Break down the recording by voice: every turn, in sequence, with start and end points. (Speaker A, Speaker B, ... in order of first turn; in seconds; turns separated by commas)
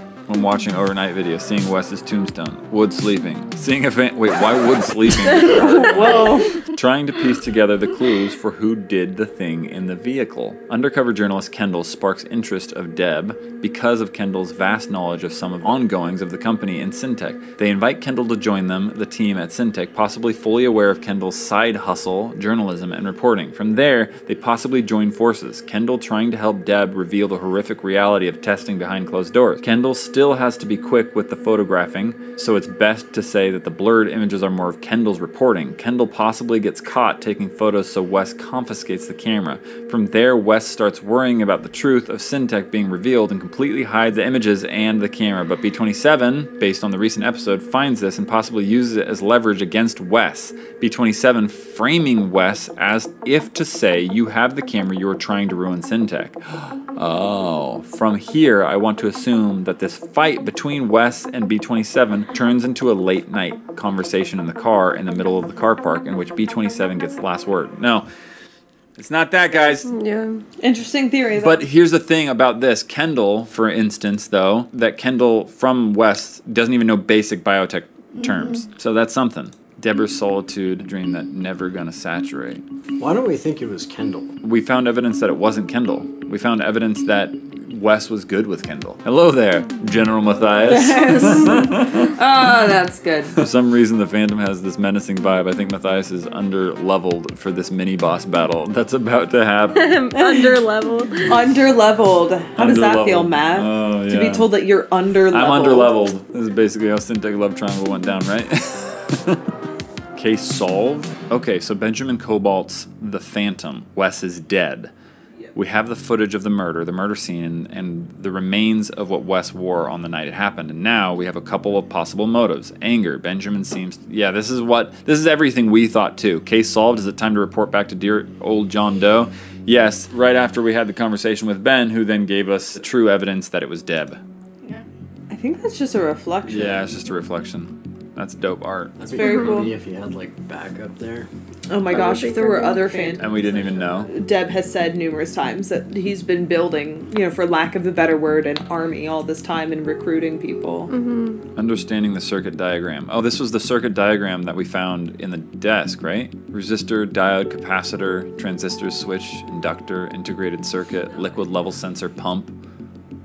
Speaker A: 0.3-68.0, Speaker B: 5.6-6.6, Speaker A: 69.0-69.9, Speaker C: 69.8-70.4, Speaker B: 70.6-71.7, Speaker A: 71.4-82.6, Speaker D: 83.0-84.3, Speaker A: 84.4-92.1, Speaker B: 90.7-93.3, Speaker A: 93.3-99.9, Speaker C: 99.7-101.3, Speaker B: 100.1-100.5, Speaker B: 101.3-106.1, Speaker A: 102.5-104.5, Speaker A: 105.3-109.4, Speaker A: 110.1-114.9, Speaker A: 115.5-134.2, Speaker B: 135.3-136.8, Speaker A: 136.5-138.9, Speaker D: 139.0-141.3, Speaker B: 139.2-139.7, Speaker C: 139.2-139.7, Speaker B: 141.7-150.9, Speaker C: 141.9-143.2, Speaker A: 143.2-144.1, Speaker C: 150.9-151.4, Speaker A: 151.6-162.6